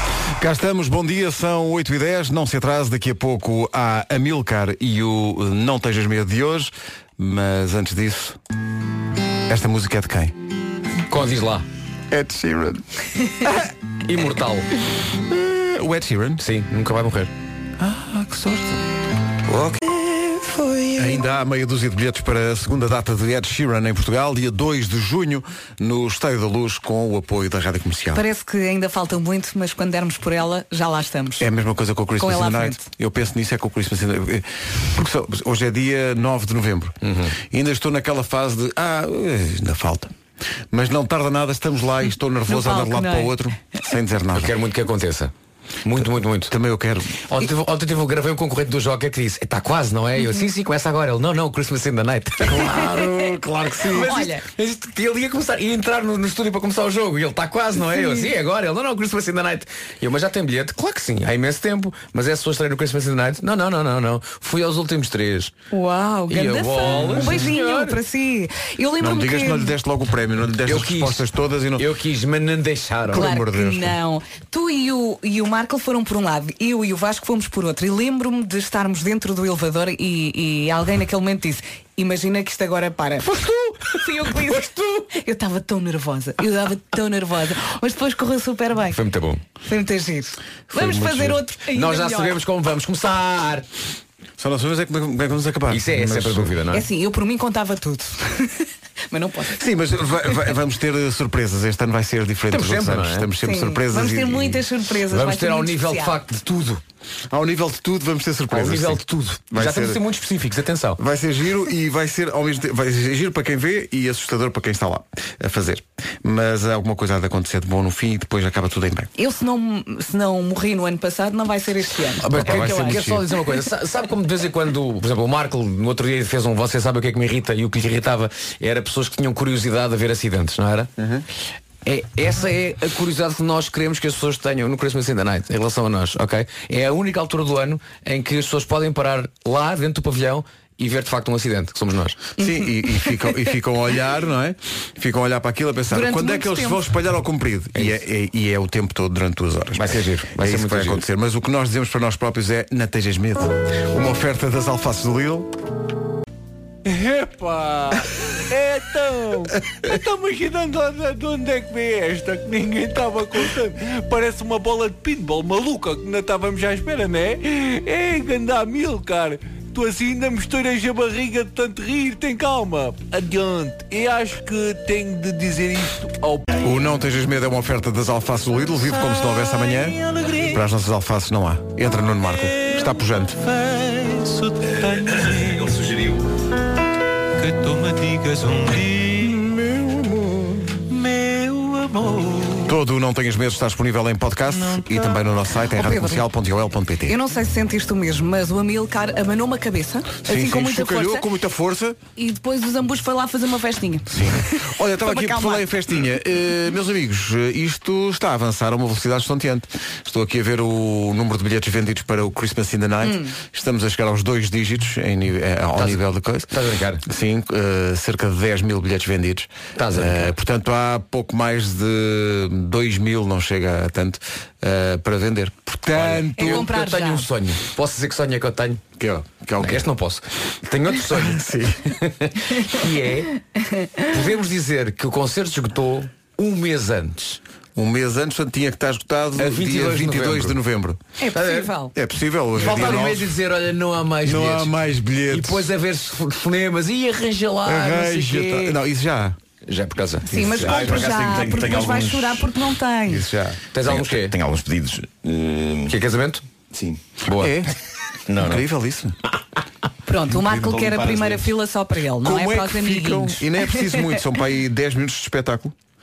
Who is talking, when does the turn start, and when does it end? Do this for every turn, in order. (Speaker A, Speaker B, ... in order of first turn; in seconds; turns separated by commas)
Speaker A: 0.4-8.4, Speaker A: 9.5-10.3, Speaker B: 11.1-11.6, Speaker A: 12.1-12.8, Speaker B: 14.1-14.7, Speaker A: 15.3-16.4, Speaker B: 16.4-17.3, Speaker A: 17.8-18.8, Speaker A: 19.5-19.9, Speaker A: 20.9-28.2, Speaker C: 28.1-31.5, Speaker A: 31.4-36.9, Speaker C: 32.2-32.8, Speaker B: 37.0-37.3, Speaker A: 37.5-40.1, Speaker A: 40.7-44.5, Speaker C: 42.5-43.3, Speaker B: 44.3-45.3, Speaker B: 45.8-46.5, Speaker A: 46.0-47.2, Speaker B: 47.3-52.8, Speaker A: 52.5-54.1, Speaker C: 53.9-54.4, Speaker B: 53.9-65.5, Speaker C: 57.9-58.3, Speaker C: 65.7-69.7, Speaker B: 66.3-68.0, Speaker A: 69.0-71.8, Speaker B: 70.7-71.2, Speaker B: 71.8-73.3, Speaker A: 73.1-74.0, Speaker C: 73.1-89.0, Speaker B: 88.9-89.4, Speaker C: 89.6-92.4, Speaker A: 90.7-91.4, Speaker B: 91.7-93.6, Speaker A: 94.4-96.5, Speaker B: 95.7-96.8, Speaker C: 96.7-99.6, Speaker A: 99.6-104.6, Speaker B: 102.5-103.3, Speaker C: 103.4-106.2, Speaker B: 105.1-106.8, Speaker A: 107.3-110.0, Speaker B: 108.5-111.0, Speaker A: 111.0-119.1, Speaker C: 119.2-123.0, Speaker B: 122.2-130.9, Speaker A: 122.3-123.2, Speaker A: 131.0-131.2, Speaker B: 131.8-142.2, Speaker A: 142.4-155.5, Speaker C: 145.9-146.8, Speaker B: 147.7-148.0, Speaker B: 149.7-151.0, Speaker D: 156.8-176.5, Speaker A: 176.6-183.4, Speaker D: 184.1-184.4, Speaker E: 184.8-186.2, Speaker D: 187.6-189.0, Speaker A: 192.6-197.1, Speaker C: 195.7-196.2, Speaker C: 197.1-201.2, Speaker A: 200.2-202.0, Speaker C: 202.2-205.7, Speaker A: 204.1-216.5, Speaker C: 213.0-213.3, Speaker B: 215.8-217.0, Speaker A: 217.0-226.7, Speaker B: 219.8-220.3, Speaker B: 225.9-228.8, Speaker C: 226.4-227.3, Speaker A: 229.0-229.9, Speaker B: 229.6-233.3, Speaker A: 231.2-231.9, Speaker C: 233.6-234.1, Speaker B: 234.1-237.4, Speaker A: 237.8-241.0, Speaker B: 239.4-240.6, Speaker C: 241.2-241.9, Speaker B: 241.3-241.7, Speaker A: 241.9-243.3, Speaker B: 242.6-244.7, Speaker A: 244.2-245.7, Speaker B: 245.3-248.7, Speaker A: 247.6-249.3, Speaker B: 249.7-250.3, Speaker C: 250.3-253.3, Speaker A: 250.3-250.8, Speaker E: 250.6-252.5, Speaker A: 253.1-253.6, Speaker B: 253.7-254.3, Speaker E: 253.8-255.9, Speaker B: 255.9-256.4, Speaker E: 256.7-257.0, Speaker B: 257.2-257.6, Speaker A: 257.4-257.7, Speaker E: 258.3-258.6, Speaker A: 258.4-259.1, Speaker C: 260.1-264.1, Speaker E: 260.3-261.4, Speaker A: 262.2-265.7